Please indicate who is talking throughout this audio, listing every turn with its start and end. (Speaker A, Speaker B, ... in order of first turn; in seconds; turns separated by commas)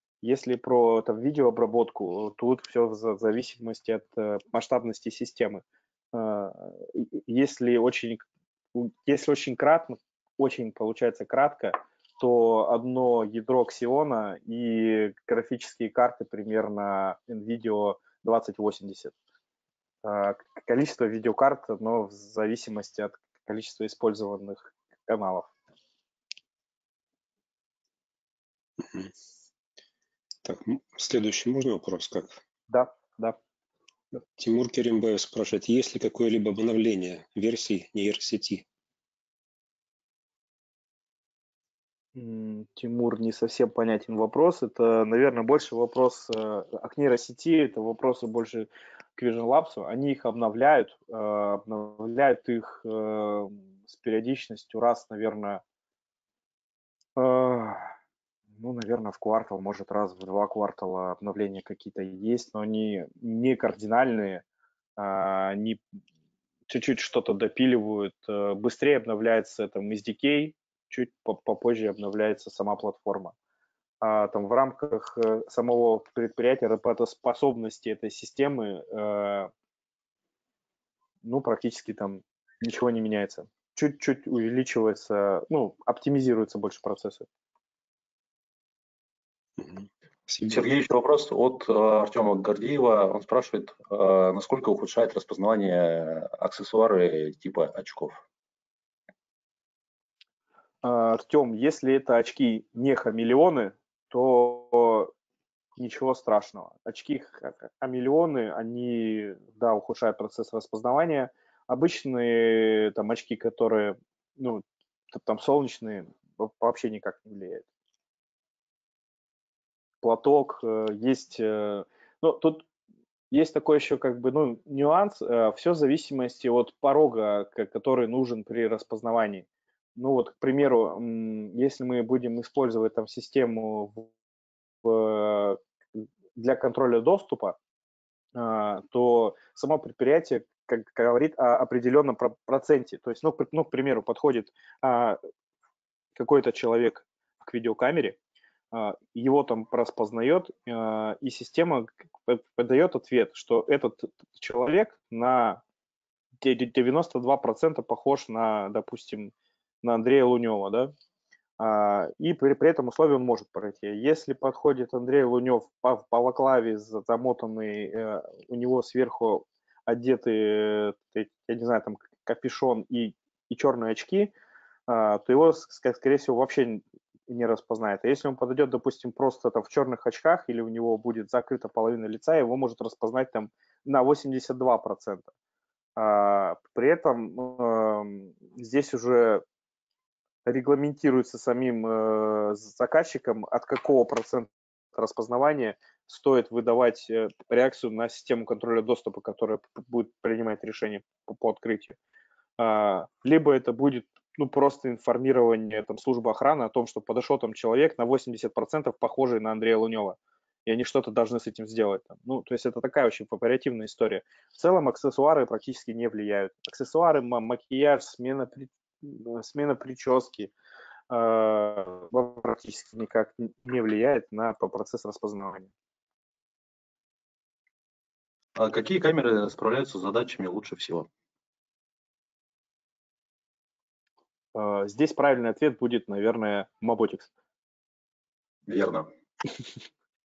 Speaker A: 0.2-5.6, Speaker A: 6.1-19.1, Speaker A: 20.0-25.5, Speaker B: 30.4-32.4, Speaker A: 32.7-33.4, Speaker B: 34.4-38.6, Speaker A: 42.1-55.6, Speaker A: 57.2-57.9, Speaker A: 58.6-64.4, Speaker A: 65.0-65.8, Speaker A: 66.7-73.3, Speaker A: 74.0-79.5, Speaker A: 81.2-87.3, Speaker B: 89.6-90.6, Speaker C: 90.4-98.2, Speaker A: 100.8-105.1, Speaker A: 105.8-117.7, Speaker A: 120.0-122.7, Speaker A: 123.3-134.1, Speaker A: 134.8-137.6, Speaker A: 138.3-145.2, Speaker A: 146.2-148.2, Speaker A: 148.7-155.6, Speaker A: 156.4-160.9, Speaker A: 161.6-174.3, Speaker A: 174.9-185.3, Speaker A: 186.0-189.4, Speaker A: 190.4-202.0, Speaker A: 202.6-220.5, Speaker A: 221.1-225.7, Speaker C: 228.6-231.1, Speaker A: 234.5-237.3, Speaker C: 238.7-239.1